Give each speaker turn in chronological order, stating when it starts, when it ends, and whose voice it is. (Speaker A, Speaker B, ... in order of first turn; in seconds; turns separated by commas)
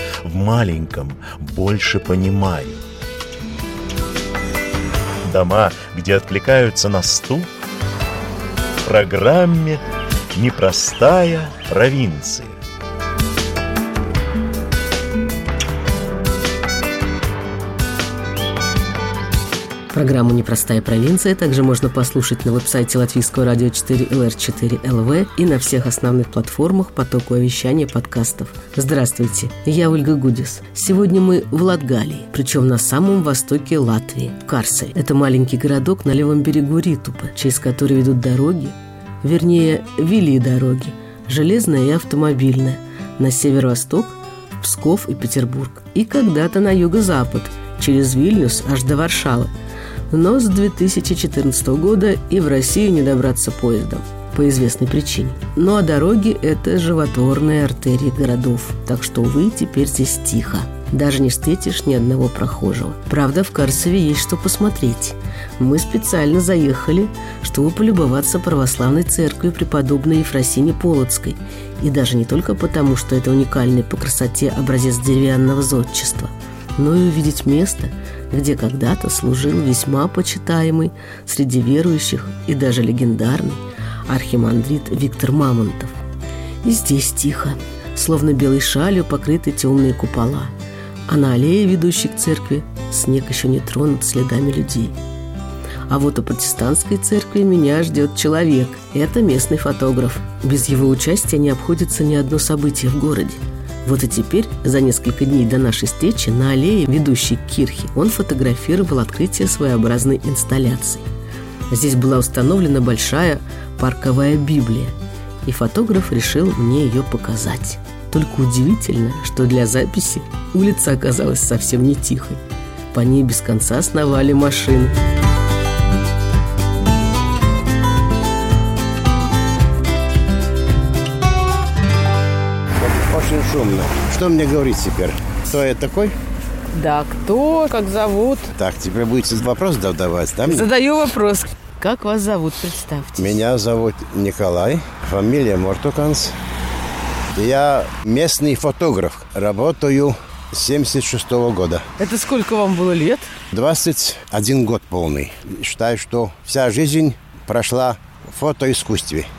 Speaker A: 0.2-2.8, Speaker A: 5.2-7.5, Speaker A: 8.8-9.8, Speaker A: 10.3-12.6, Speaker B: 19.9-49.5, Speaker B: 50.1-85.9, Speaker B: 86.6-90.5, Speaker B: 91.1-95.0, Speaker B: 95.9-111.0, Speaker B: 111.7-114.9, Speaker B: 115.5-122.4, Speaker B: 122.9-124.9, Speaker C: 132.8-136.2, Speaker D: 136.7-138.5, Speaker C: 138.6-140.7, Speaker D: 140.4-143.4, Speaker C: 143.2-146.4, Speaker C: 147.3-151.9, Speaker D: 152.0-153.3, Speaker C: 153.5-159.3